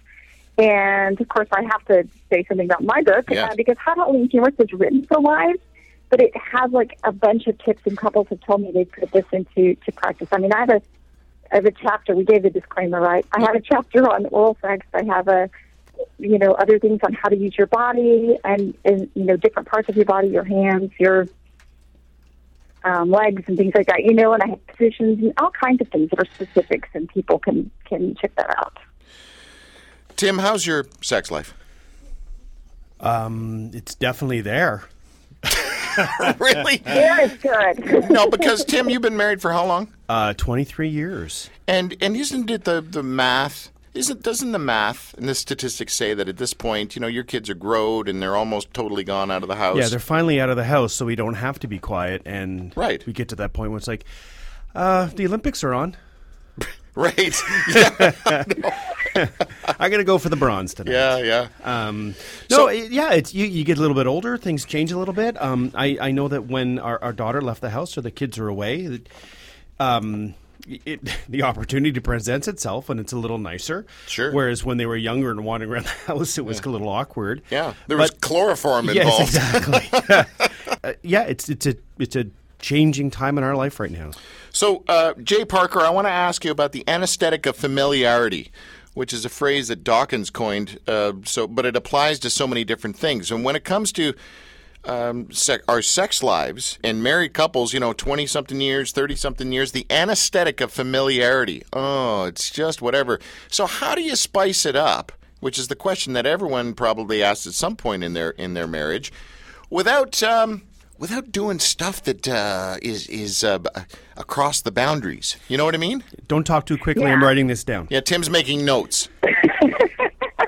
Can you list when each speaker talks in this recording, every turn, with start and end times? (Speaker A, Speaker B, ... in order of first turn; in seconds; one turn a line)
Speaker A: 0.6-5.6
Speaker A: 6.1-10.8
Speaker A: 11.5-15.5
Speaker A: 16.2-21.3
Speaker A: 22.8-28.8
Speaker B: 30.1-31.5
Speaker C: 33.0-34.9
Speaker B: 36.0-37.3
Speaker A: 36.9-38.6
Speaker B: 38.0-39.9
Speaker C: 40.1-41.5
Speaker B: 41.7-50.0
Speaker C: 49.7-54.0
Speaker B: 52.8-53.0
Speaker C: 54.7-56.0
Speaker B: 56.6-58.9
Speaker C: 57.7-69.1
Speaker B: 60.9-61.5
Speaker C: 69.8-78.1
Speaker B: 74.1-74.4
Speaker B: 77.5-80.1
Speaker C: 78.8-84.2
Speaker B: 84.5-94.2
Speaker B: 94.8-109.1
Speaker B: 109.7-116.1
Speaker C: 116.3-117.9
Speaker A: 117.0-117.3
Speaker B: 117.9-119.1
Speaker A: 119.4-120.1